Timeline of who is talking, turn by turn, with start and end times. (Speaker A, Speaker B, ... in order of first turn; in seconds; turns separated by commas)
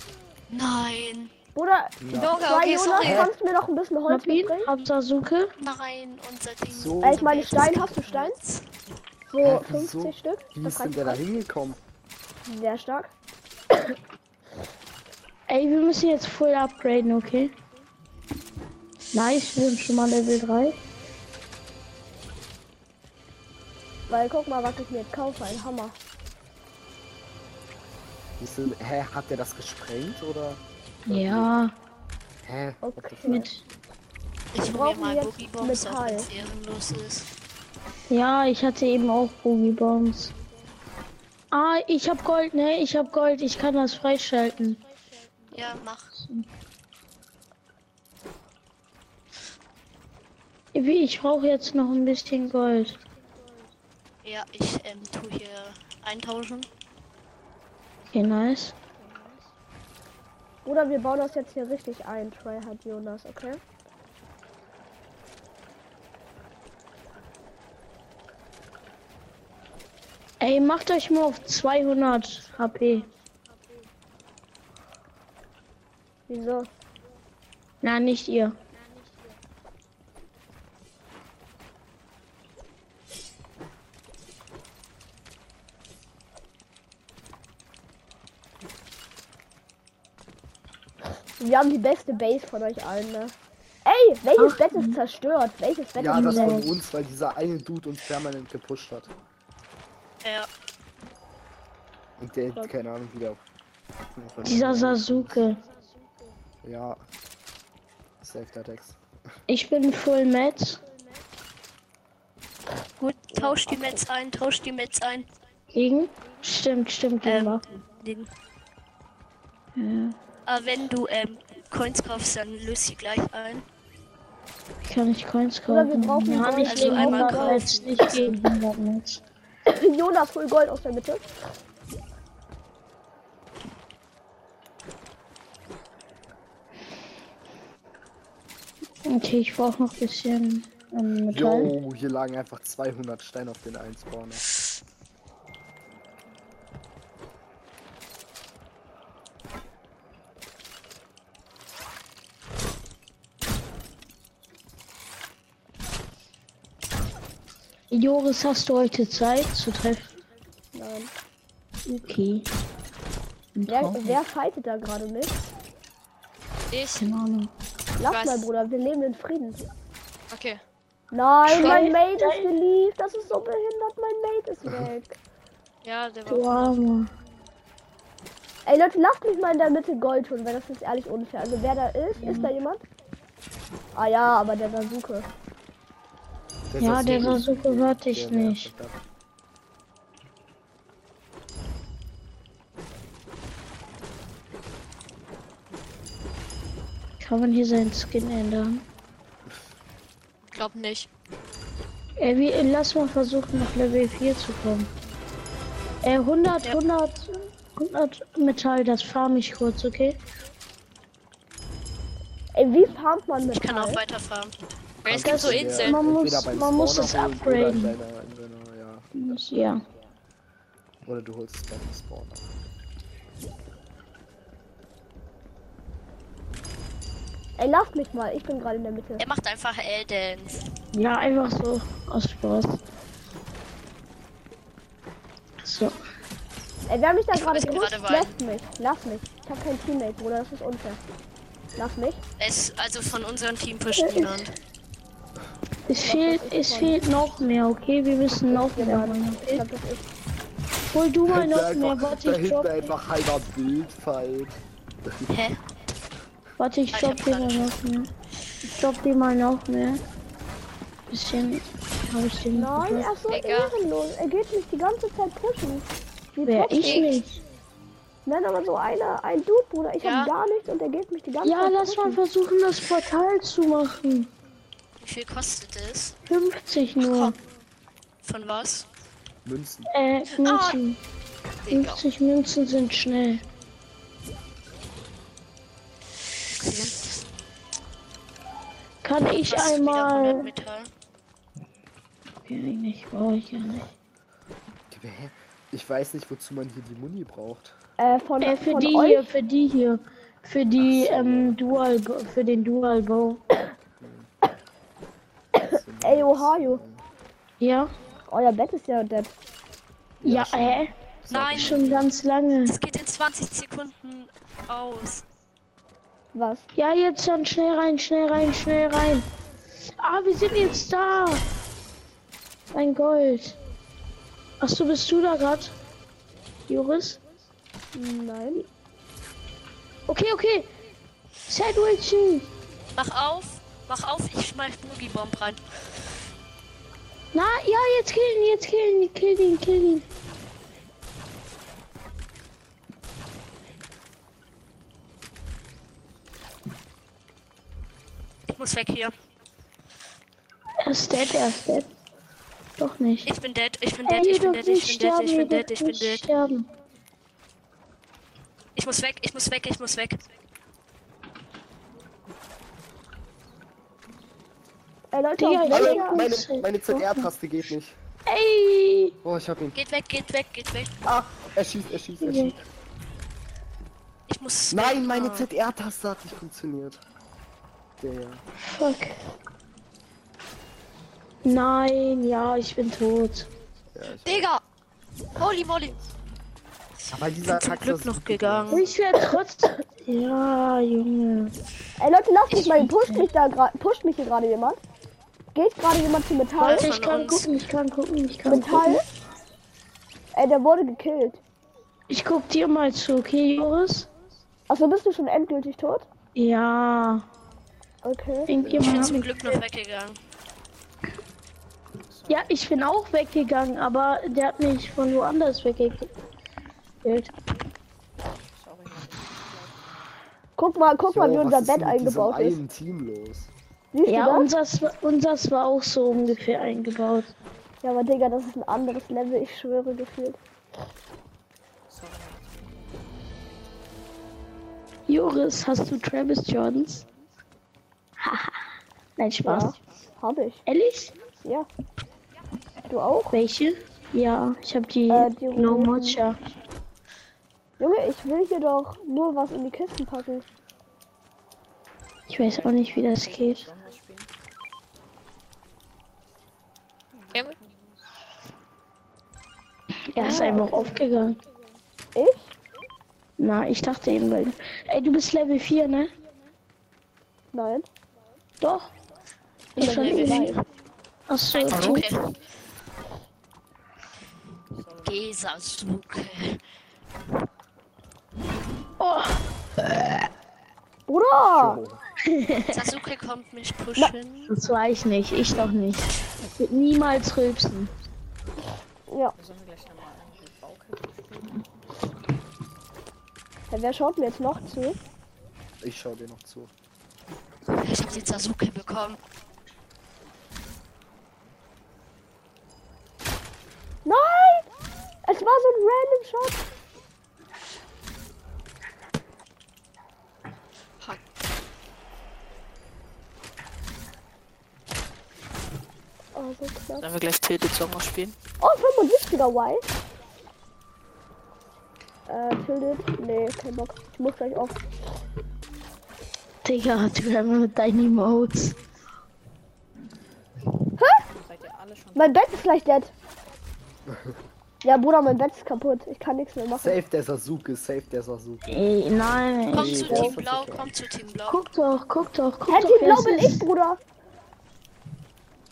Speaker A: 0.5-1.3, Speaker B: 1.5-4.7, Speaker C: 2.0-2.4, Speaker D: 2.1-3.2, Speaker C: 3.0-3.3, Speaker E: 4.1-5.5, Speaker A: 5.6-8.6, Speaker C: 6.7-7.3, Speaker B: 7.0-8.4, Speaker B: 9.3-11.2, Speaker C: 9.4-11.8, Speaker B: 12.4-13.1, Speaker E: 15.5-17.5, Speaker E: 19.1-20.8, Speaker B: 24.1-26.0, Speaker C: 28.4-31.5, Speaker E: 31.1-31.7, Speaker C: 32.4-33.4, Speaker B: 32.8-33.5, Speaker E: 33.3-33.6, Speaker A: 34.5-37.3, Speaker B: 34.6-36.3, Speaker E: 38.1-40.3, Speaker E: 41.5-44.8, Speaker A: 45.5-46.1, Speaker E: 46.1-46.5, Speaker E: 50.7-53.0, Speaker A: 54.2-56.7, Speaker E: 58.1-58.7, Speaker B: 60.6-63.6, Speaker E: 70.4-73.1, Speaker B: 76.3-76.7, Speaker E: 77.8-78.6, Speaker B: 91.4-96.6, Speaker E: 94.4-95.0, Speaker C: 96.0-99.1, Speaker E: 96.1-96.7, Speaker A: 100.2-100.5, Speaker C: 102.2-103.4, Speaker C: 104.2-105.4, Speaker E: 104.4-105.6, Speaker C: 106.6-107.0, Speaker C: 108.2-109.0, Speaker E: 109.5-110.8, Speaker A: 113.0-115.3, Speaker B: 113.3-114.0, Speaker E: 115.7-117.6, Speaker A: 117.2-118.3, Speaker E: 119.7-120.2, Speaker A: 120.5-123.6, Speaker E: 124.8-129.2, Speaker B: 125.7-127.7, Speaker A: 126.6-128.4, Speaker B: 129.7-131.2, Speaker E: 139.0-141.7, Speaker C: 141.3-144.4, Speaker E: 157.9-160.1, Speaker B: 160.7-161.1, Speaker E: 161.8-162.5, Speaker E: 163.5-164.2, Speaker B: 163.7-165.4, Speaker D: 166.7-167.1, Speaker E: 167.0-167.5, Speaker B: 168.0-169.6, Speaker D: 168.1-168.4, Speaker D: 170.3-170.6, Speaker B: 171.1-175.2, Speaker E: 171.5-172.5, Speaker D: 171.5-171.9, Speaker D: 175.8-176.7, Speaker E: 176.2-177.1, Speaker B: 178.7-182.8, Speaker E: 182.2-182.5, Speaker B: 183.9-185.3, Speaker C: 186.7-189.0, Speaker E: 186.8-188.7, Speaker E: 197.2-198.8, Speaker D: 200.5-201.1, Speaker E: 202.2-204.9, Speaker E: 206.0-210.2, Speaker B: 212.5-214.0, Speaker A: 213.5-214.5, Speaker C: 215.0-219.4, Speaker D: 215.0-216.0, Speaker A: 215.1-215.8, Speaker E: 215.2-217.9, Speaker E: 219.1-219.8, Speaker C: 221.0-222.5, Speaker B: 227.6-229.2, Speaker A: 229.2-230.7, Speaker E: 230.9-232.8, Speaker E: 235.6-236.0, Speaker B: 236.9-241.0, Speaker A: 237.3-238.3, Speaker B: 241.8-242.2, Speaker A: 242.4-244.5, Speaker E: 244.0-244.5, Speaker E: 245.9-249.6, Speaker B: 246.0-247.0, Speaker B: 248.5-250.1, Speaker E: 250.9-252.9, Speaker C: 251.3-255.3, Speaker A: 255.3-255.6, Speaker E: 256.6-258.1, Speaker A: 256.9-257.7, Speaker E: 258.6-260.0, Speaker E: 261.1-263.2, Speaker B: 262.5-267.1, Speaker D: 263.3-263.7, Speaker E: 266.4-267.4, Speaker B: 268.2-272.2, Speaker D: 270.0-270.3, Speaker E: 271.4-274.3, Speaker A: 275.0-276.2, Speaker E: 276.3-277.4, Speaker A: 277.0-277.4, Speaker A: 278.2-278.9, Speaker C: 279.4-279.9, Speaker E: 279.9-281.0, Speaker A: 280.4-280.8, Speaker A: 281.6-282.0, Speaker E: 281.7-283.4, Speaker A: 286.5-287.2, Speaker E: 289.0-290.5, Speaker A: 289.4-290.9, Speaker E: 292.4-293.9, Speaker C: 294.9-297.8, Speaker B: 298.0-299.3, Speaker E: 298.4-303.4, Speaker C: 300.8-301.6, Speaker C: 304.0-304.3, Speaker B: 305.6-306.8, Speaker C: 305.7-307.0, Speaker E: 307.6-307.9, Speaker B: 308.3-309.3, Speaker C: 310.2-312.1, Speaker E: 310.2-310.9, Speaker A: 311.3-312.0, Speaker E: 311.5-312.7, Speaker A: 312.6-315.2, Speaker B: 316.3-316.6, Speaker E: 316.7-319.3, Speaker E: 320.0-321.4, Speaker E: 322.7-323.6, Speaker E: 324.6-325.7, Speaker E: 326.7-327.2, Speaker B: 327.9-328.6, Speaker E: 330.1-330.7, Speaker E: 331.5-332.5, Speaker A: 332.9-335.6, Speaker E: 337.3-340.1, Speaker A: 348.5-349.1, Speaker E: 350.8-351.9, Speaker E: 352.8-353.3, Speaker A: 353.2-356.2, Speaker E: 354.1-356.7, Speaker A: 358.7-360.3, Speaker B: 365.1-366.2, Speaker E: 365.4-367.3, Speaker C: 365.7-367.9, Speaker E: 368.2-369.2, Speaker C: 369.2-369.8, Speaker A: 369.7-370.9, Speaker C: 371.0-372.6, Speaker E: 372.2-372.5, Speaker A: 374.3-375.5, Speaker C: 374.7-377.0, Speaker C: 378.0-378.4, Speaker E: 378.7-379.2, Speaker E: 381.4-383.5, Speaker C: 383.9-384.5, Speaker D: 384.2-384.6, Speaker D: 385.4-385.9, Speaker A: 387.1-388.9, Speaker C: 387.1-388.9, Speaker E: 388.7-391.5, Speaker B: 392.0-394.8, Speaker A: 392.5-392.8, Speaker E: 392.8-393.2, Speaker B: 395.5-396.9, Speaker A: 396.6-397.5, Speaker E: 396.6-399.0, Speaker B: 398.4-399.0, Speaker B: 400.3-401.4, Speaker E: 402.1-404.1, Speaker B: 404.7-406.1, Speaker E: 406.3-407.2, Speaker B: 408.0-408.5, Speaker E: 408.5-409.3, Speaker C: 408.6-409.1, Speaker A: 408.7-410.2, Speaker F: 412.1-412.6, Speaker E: 412.3-416.1, Speaker E: 417.0-417.3, Speaker F: 418.5-420.0, Speaker B: 420.6-422.6, Speaker C: 421.0-423.5, Speaker B: 423.9-424.5, Speaker E: 424.1-427.3, Speaker B: 427.8-430.4, Speaker F: 431.9-433.9, Speaker E: 435.1-437.0, Speaker E: 438.2-439.8, Speaker B: 439.4-440.6, Speaker E: 440.6-441.1, Speaker B: 442.9-443.4, Speaker E: 443.3-446.4, Speaker B: 445.1-446.2, Speaker B: 447.8-450.4, Speaker E: 452.3-453.7, Speaker F: 452.4-454.3, Speaker F: 457.1-458.0, Speaker E: 460.1-461.4, Speaker B: 460.2-461.0, Speaker B: 462.1-462.5, Speaker E: 463.4-466.1, Speaker B: 467.5-467.9, Speaker E: 468.6-468.9, Speaker B: 469.8-470.6, Speaker E: 469.8-470.6, Speaker A: 469.8-470.6, Speaker E: 471.3-472.1, Speaker A: 471.5-472.3, Speaker F: 474.7-475.3, Speaker A: 475.0-476.6, Speaker E: 479.0-480.1, Speaker B: 481.1-481.8, Speaker C: 481.6-482.0, Speaker E: 482.2-482.8, Speaker A: 482.7-484.5, Speaker E: 484.5-487.9, Speaker B: 489.1-489.3, Speaker F: 489.4-491.9, Speaker B: 493.7-495.0, Speaker C: 495.8-496.7, Speaker A: 497.7-499.2, Speaker B: 504.0-504.7, Speaker B: 505.2-506.6, Speaker B: 516.3-517.1, Speaker F: 517.0-518.4, Speaker B: 518.6-519.8, Speaker B: 522.3-524.8, Speaker E: 526.6-528.8, Speaker B: 531.0-531.2, Speaker F: 531.4-532.4, Speaker B: 532.1-533.1, Speaker C: 534.1-534.3, Speaker B: 534.8-537.0, Speaker C: 536.8-538.8, Speaker E: 538.7-540.3, Speaker C: 539.7-540.9, Speaker A: 539.7-541.6, Speaker E: 541.5-543.6, Speaker B: 542.7-544.0